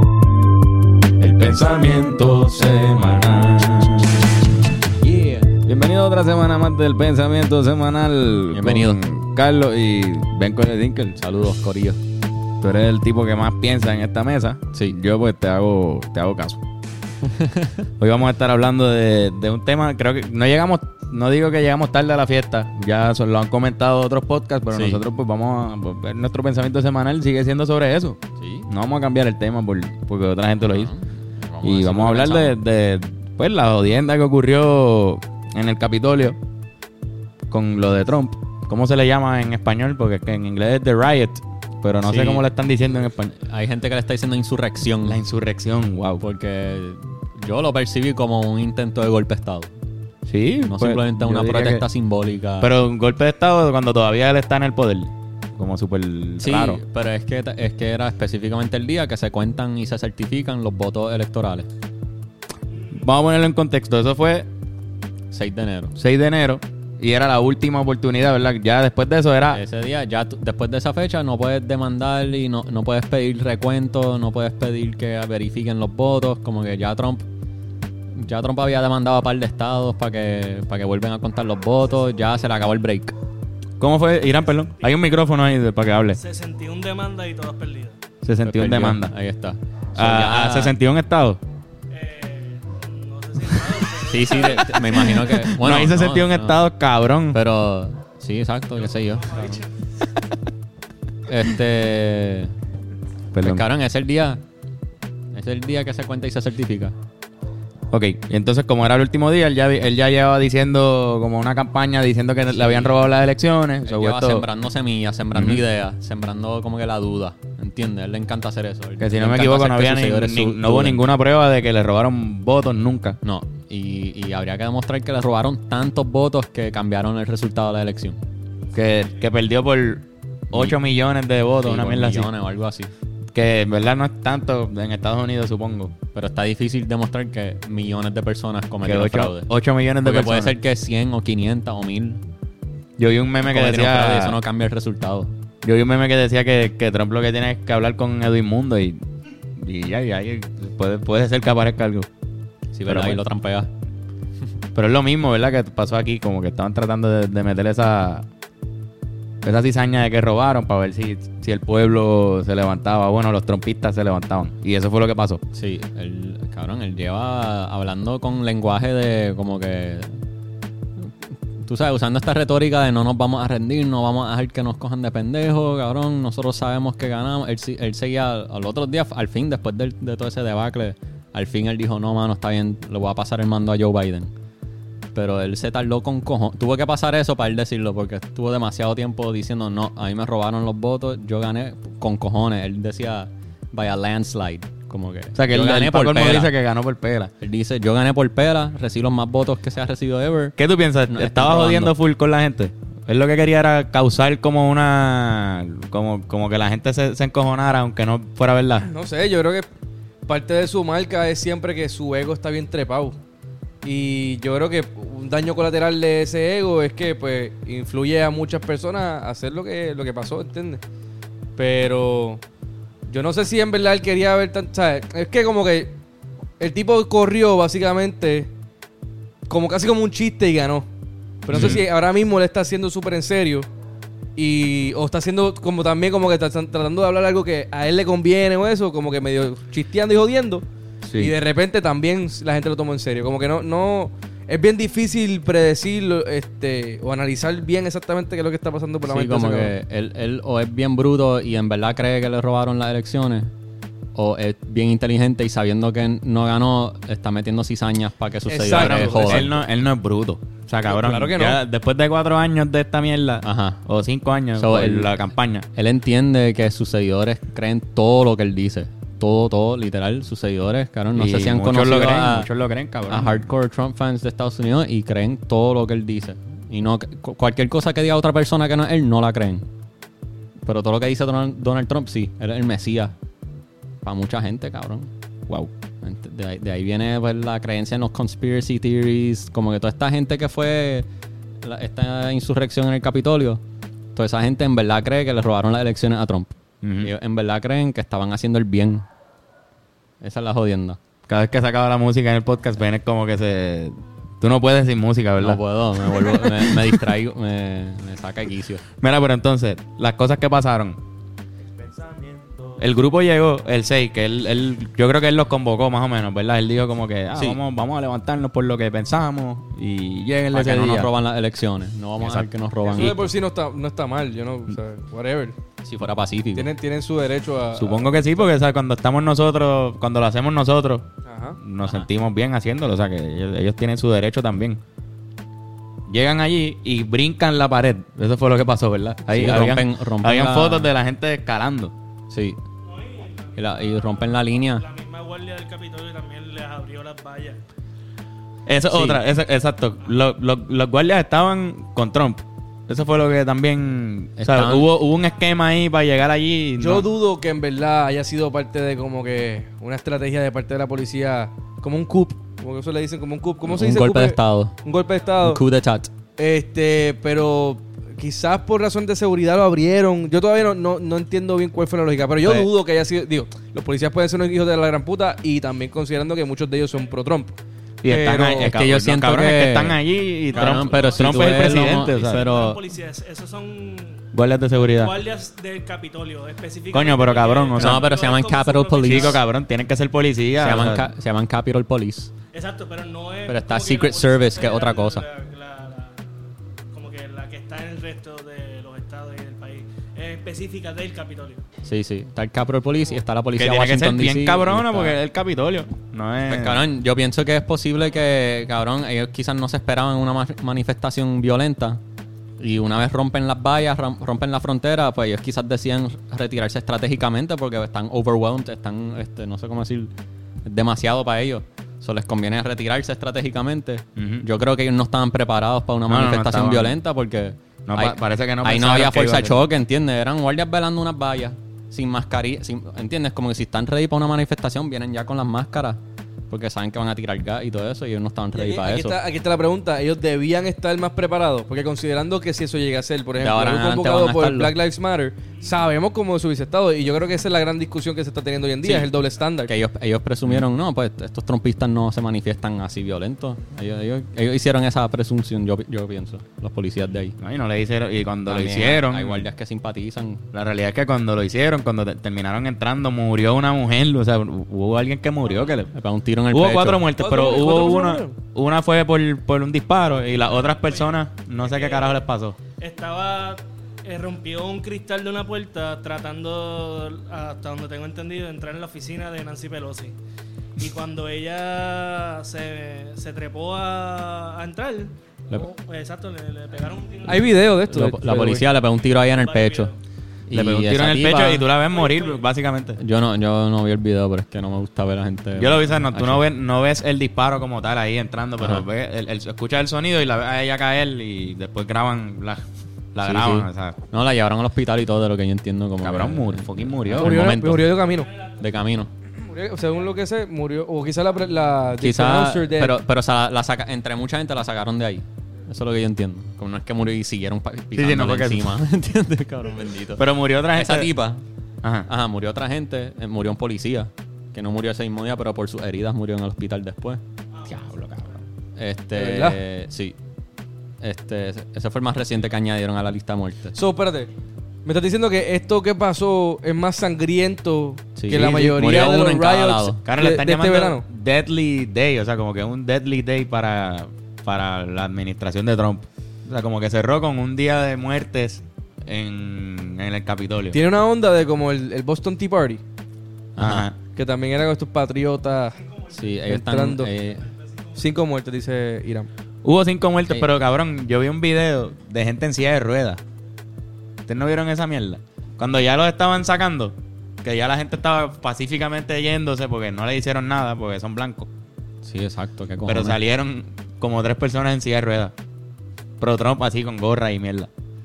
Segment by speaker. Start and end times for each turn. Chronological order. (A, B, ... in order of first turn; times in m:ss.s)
0:01.2-0:04.3 A
0:05.0-0:05.6 B
0:05.6-0:11.2 A
0:08.5-0:09.0 B
0:11.2-0:12.0 B
0:12.6-0:16.6 A
0:17.2-0:17.9 B
0:18.0-0:30.9 A
0:24.7-0:25.0 B
0:28.4-0:28.7 B
0:30.6-0:32.6 B
0:31.6-0:36.4 A
0:37.5-0:43.4 A
0:42.0-0:42.4 B
0:43.4-0:45.2 B
0:45.0-0:46.2 A
0:46.2-0:49.7 B
0:50.3-0:51.8 A
0:50.6-0:52.7 B
0:52.6-0:56.8 A
0:56.4-1:01.7 B
1:02.9-1:04.5 A
1:05.3-1:06.0 B
1:06.0-1:09.6 A
1:09.5-1:17.3 B
1:18.1-1:23.2 B
1:23.8-1:26.2 A
1:26.2-1:28.0 C
1:28.2-1:29.1 A
1:28.4-1:30.8 B
1:30.0-1:31.4 A
1:31.9-1:35.2 C
1:34.0-1:36.7 B
1:35.0-1:37.4 A
1:37.3-1:39.6 B
1:39.2-1:39.7 C
1:41.3-1:42.6 B
1:43.3-1:43.7 A
1:43.4-1:44.4 B
1:45.3-1:47.0 B
1:47.9-1:54.5 A
1:52.5-1:53.1 B
1:53.9-2:01.1 B
1:55.4-1:55.6 A
1:59.0-2:03.2 A
2:03.2-2:08.2 B
2:08.7-2:12.3 A
2:10.5-2:10.8 B
2:11.6-2:12.9 B
2:13.4-2:16.0 A
2:16.1-2:19.5 B
2:18.8-2:20.6 A
2:20.0-2:22.2 B
2:23.0-2:24.4 A
2:23.5-2:25.3 B
2:25.6-2:29.0 A
2:29.6-2:32.1 A
2:32.7-2:33.7 B
2:32.9-2:33.2 A
2:34.8-2:38.3 A
2:39.4-2:45.4 A
2:45.5-2:50.2 B
2:51.0-3:04.3 B
3:05.1-3:16.5 B
3:15.4-3:17.3 A
3:17.4-3:20.6 B
3:20.6-3:28.9 A
3:21.1-3:22.0 B
3:28.8-3:29.7 D
3:30.3-3:33.2 D
3:33.8-3:40.8 D
3:41.6-3:42.4 D
3:43.1-3:46.0 D
3:46.6-3:48.5 D
3:49.5-3:50.9 D
3:51.4-3:53.7 D
3:51.5-3:51.8 B
3:51.5-3:51.8 A
3:54.4-4:00.6 D
4:01.0-4:01.3 A
4:01.2-4:09.8 D
4:09.0-4:13.5 B
4:14.2-4:19.6 B
4:18.5-4:19.5 D
4:18.6-4:25.7 A
4:20.8-4:21.6 D
4:23.4-4:23.8 B
4:24.6-4:25.2 B
4:25.7-4:32.5 B
4:31.2-4:33.4 A
4:33.1-4:39.7 B
4:40.6-4:43.1 B
4:44.0-4:45.1 B
4:46.0-4:51.1 B
4:51.6-4:53.6 B
4:54.2-4:59.1 B
4:56.8-4:57.1 A
5:00.2-5:01.0 B
5:01.3-5:07.1 A
5:05.4-5:08.8 B
5:09.0-5:11.0 A
5:12.8-5:21.1 A
5:17.3-5:17.6 B
5:20.5-5:23.3 B
5:22.2-5:22.5 A
5:22.8-5:25.6 D
5:25.8-5:26.7 B
5:26.6-5:28.3 D
5:27.8-5:31.1 A
5:31.3-5:31.6 D
5:31.6-5:34.8 A
5:36.1-5:41.9 A
5:39.3-5:40.9 B
5:42.3-5:42.6 B
5:42.8-5:47.6 C
5:43.6-5:44.9 B
5:48.7-5:57.0 A
5:48.9-5:49.2 B
5:54.4-5:54.9 B
5:56.8-6:05.6 D
6:03.6-6:04.8 B
6:05.4-6:06.1 B
6:06.4-6:17.6 D
6:18.0-6:22.7 A
6:18.1-6:18.7 D
6:18.1-6:20.0 B
6:20.5-6:22.8 B
6:20.6-6:24.2 C
6:24.3-6:25.2 A
6:24.9-6:29.4 C
6:26.9-6:28.1 A
6:27.8-6:29.4 B
6:29.0-6:31.1 A
6:30.6-6:32.3 B
6:32.5-6:36.2 C
6:33.5-6:35.3 B
6:36.9-6:41.6 C
6:41.8-6:45.2 B
6:43.6-6:46.8 A
6:46.5-6:52.0 B
6:52.6-7:00.1 B
7:00.6-7:19.2 B
7:04.2-7:04.5 A
7:06.1-7:07.0 A
7:07.9-7:09.6 A
7:18.5-7:29.7 D
7:23.4-7:24.7 B
7:28.8-7:29.1 B
7:29.7-7:37.4 B
7:37.4-7:39.4 A
7:38.5-7:40.5 B
7:40.5-7:45.9 A
7:45.9-7:47.0 B
7:46.5-7:52.6 A
7:47.2-7:48.3 D
7:51.6-7:52.2 C
7:52.8-8:00.2 C
8:00.8-8:07.7 C
8:07.2-8:08.7 D
8:07.9-8:09.9 B
8:09.2-8:10.0 C
8:10.5-8:11.7 B
8:10.5-8:13.0 A
8:11.9-8:12.4 C
8:13.0-8:16.5 B
8:15.6-8:24.0 A
8:18.6-8:18.8 B
8:23.2-8:28.0 B
8:26.0-8:27.5 A
8:27.2-8:28.3 D
8:28.6-8:29.1 B
8:29.4-8:33.0 D
8:32.0-8:41.4 B
8:38.0-8:38.7 A
8:40.2-8:41.1 A
8:41.8-8:42.1 A
8:42.1-8:47.2 B
8:47.7-8:48.4 A
8:48.8-8:50.2 B
8:49.1-8:49.6 D
8:51.0-8:53.8 B
8:53.8-8:54.3 D
8:54.8-9:01.0 D
8:58.2-9:00.0 B
9:00.0-9:10.8 A
9:10.7-9:12.8 D
9:13.6-9:13.9 B
9:13.6-9:14.0 A
9:14.2-9:15.8 D
9:16.1-9:17.5 B
9:16.5-9:17.1 D
9:18.0-9:19.3 D
9:19.6-9:23.2 A
9:24.3-9:31.5 A
9:32.0-9:33.2 B
9:32.9-9:35.3 A
9:36.2-9:37.7 A